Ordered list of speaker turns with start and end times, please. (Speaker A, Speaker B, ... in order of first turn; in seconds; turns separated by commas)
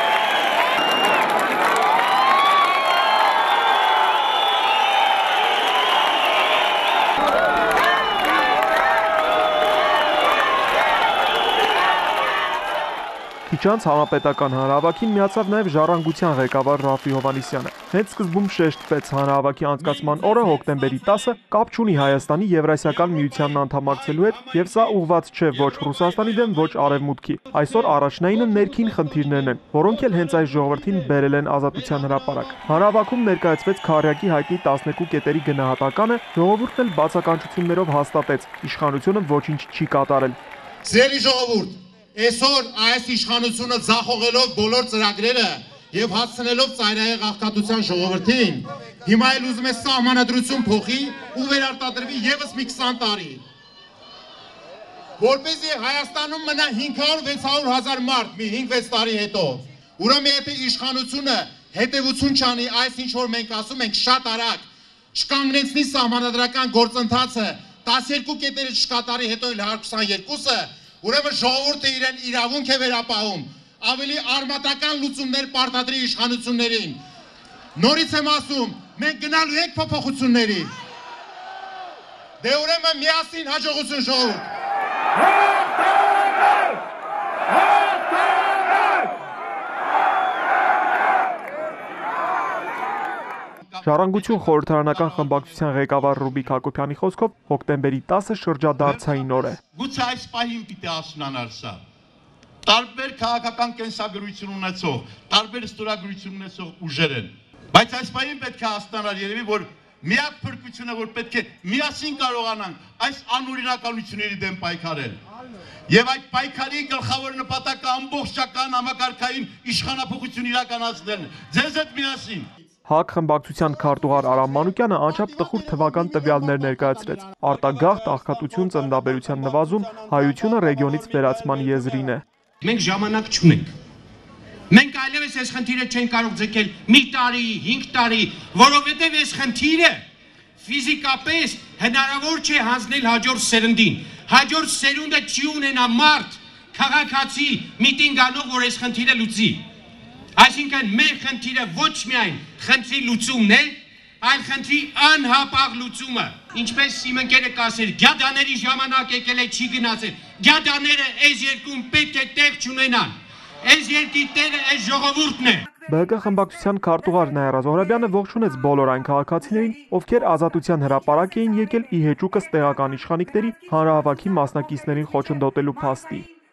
Speaker A: 13.5-40.4, Speaker B: 40.8-53.4, Speaker B: 55.2-77.0, Speaker B: 77.8-80.7, Speaker B: 82.4-84.5, Speaker C: 93.8-95.2, Speaker A: 93.8-99.6, Speaker C: 99.7-101.8, Speaker C: 102.6-115.2, Speaker C: 115.9-122.5, Speaker A: 122.9-132.2, Speaker D: 132.6-133.7, Speaker D: 134.7-140.0, Speaker D: 140.6-149.6, Speaker D: 150.3-165.6, Speaker A: 165.9-176.3